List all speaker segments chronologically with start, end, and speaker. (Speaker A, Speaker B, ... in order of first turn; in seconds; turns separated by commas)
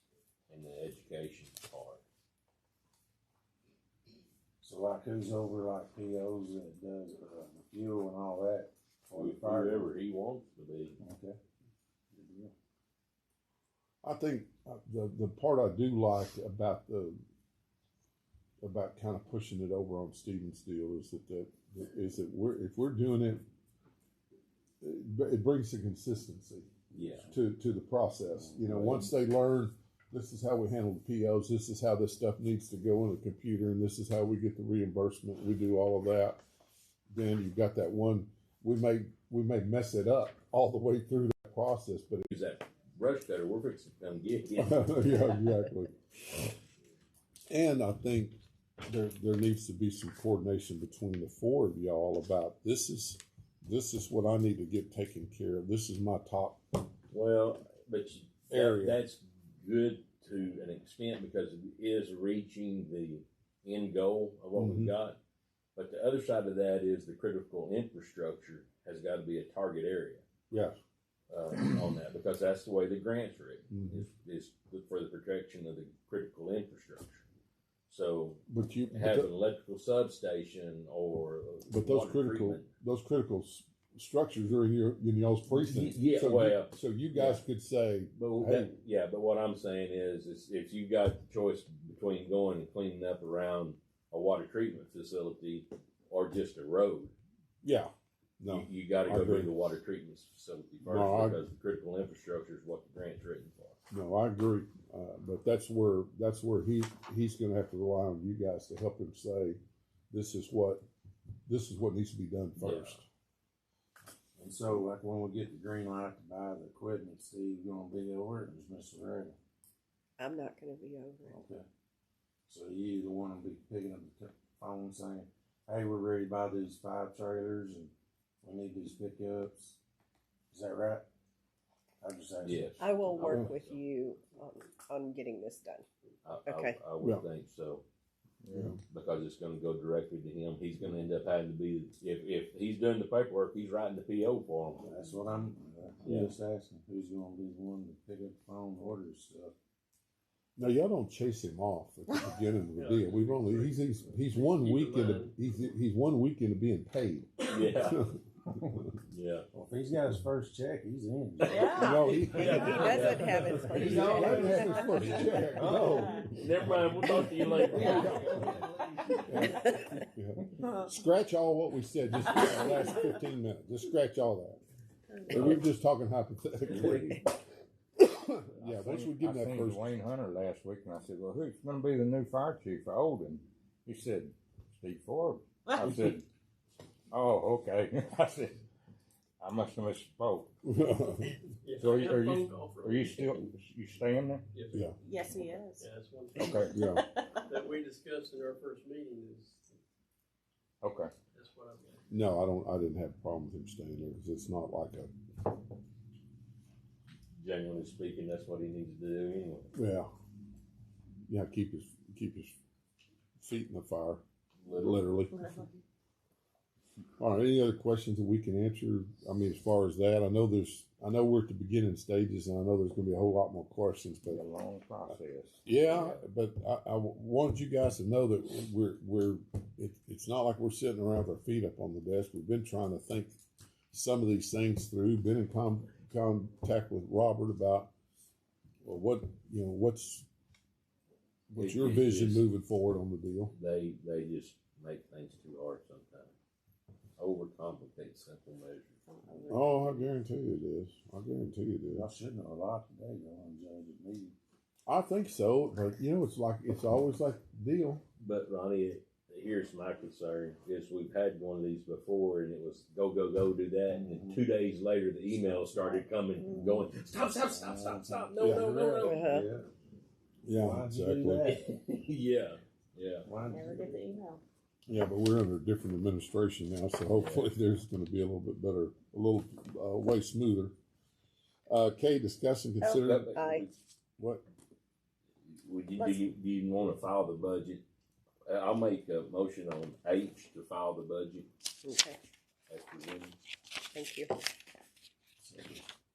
Speaker A: 0.5-2.0, Speaker B: 4.6-9.9, Speaker A: 9.2-11.0, Speaker B: 11.0-11.4, Speaker B: 12.1-12.5, Speaker C: 14.0-17.2, Speaker C: 18.6-23.4, Speaker C: 24.8-26.7, Speaker A: 26.9-27.3, Speaker C: 27.3-36.4, Speaker B: 28.4-29.1, Speaker C: 37.1-42.3, Speaker A: 42.3-45.3, Speaker C: 44.6-45.9, Speaker C: 47.5-56.8, Speaker A: 57.1-65.2, Speaker C: 58.5-59.0, Speaker C: 64.6-64.9, Speaker A: 65.8-70.2, Speaker C: 70.5-70.8, Speaker A: 71.3-77.2, Speaker C: 73.7-74.0, Speaker A: 77.9-82.7, Speaker C: 78.5-79.3, Speaker C: 81.7-88.7, Speaker A: 85.5-87.4, Speaker A: 88.2-97.2, Speaker C: 97.6-99.5, Speaker A: 98.5-103.8, Speaker C: 100.8-101.4, Speaker C: 103.9-109.6, Speaker C: 110.1-110.8, Speaker C: 111.5-113.0, Speaker A: 112.6-113.0, Speaker B: 114.4-119.4, Speaker D: 120.2-121.4, Speaker B: 121.3-121.7, Speaker B: 122.5-127.9, Speaker B: 128.4-129.8, Speaker B: 130.5-131.1, Speaker B: 132.0-132.8, Speaker A: 132.4-133.8, Speaker D: 132.8-135.9, Speaker C: 133.2-133.5, Speaker A: 136.2-137.8, Speaker D: 136.5-136.8, Speaker E: 138.4-138.7, Speaker C: 138.5-138.8, Speaker A: 138.9-145.0, Speaker B: 144.8-149.5, Speaker A: 146.0-146.3, Speaker C: 150.6-159.0, Speaker F: 152.8-155.3, Speaker A: 157.5-158.0, Speaker A: 159.1-159.5, Speaker B: 159.5-162.5, Speaker G: 161.4-162.8, Speaker C: 161.7-174.6, Speaker A: 162.4-168.5, Speaker D: 162.8-165.2, Speaker B: 163.8-165.1, Speaker G: 164.2-166.3, Speaker G: 167.6-168.4, Speaker G: 175.1-175.6, Speaker C: 175.3-177.2, Speaker A: 175.3-175.6, Speaker A: 176.7-177.2, Speaker C: 178.0-179.9, Speaker E: 178.6-186.2, Speaker G: 185.7-186.0, Speaker E: 187.1-188.6, Speaker E: 189.4-190.5, Speaker C: 190.6-191.4, Speaker F: 191.6-193.3, Speaker E: 191.8-194.5, Speaker F: 194.5-194.9, Speaker G: 195.0-195.9, Speaker F: 195.8-196.7, Speaker E: 196.3-196.8, Speaker C: 196.7-197.1, Speaker G: 196.9-197.3, Speaker F: 197.5-199.8, Speaker E: 200.8-201.1, Speaker F: 201.3-202.0, Speaker C: 202.1-205.1, Speaker A: 207.4-209.7, Speaker C: 209.7-210.1, Speaker C: 211.3-212.6, Speaker C: 213.4-215.5, Speaker A: 214.6-215.1, Speaker G: 215.3-215.8, Speaker C: 217.2-224.4, Speaker E: 224.3-226.2, Speaker C: 225.1-233.4, Speaker C: 233.9-237.9, Speaker C: 238.8-240.3, Speaker C: 241.5-243.5, Speaker A: 241.6-242.5, Speaker A: 243.5-246.3, Speaker A: 247.2-249.0, Speaker G: 249.1-250.1, Speaker C: 249.5-252.1, Speaker B: 251.9-254.3, Speaker C: 254.9-258.0, Speaker A: 258.2-269.4, Speaker B: 263.9-264.4, Speaker B: 266.6-269.7, Speaker D: 269.0-269.5, Speaker C: 270.4-271.5, Speaker B: 270.5-271.6, Speaker A: 271.4-273.3, Speaker B: 273.2-274.1, Speaker G: 273.4-274.4, Speaker C: 274.9-280.8, Speaker A: 277.1-277.5, Speaker C: 281.7-283.3, Speaker A: 283.0-283.8, Speaker D: 283.3-283.7, Speaker C: 284.2-284.4, Speaker A: 285.5-287.8, Speaker A: 288.5-291.5, Speaker D: 291.8-292.2, Speaker A: 292.7-293.4, Speaker D: 293.9-294.4, Speaker B: 295.4-295.8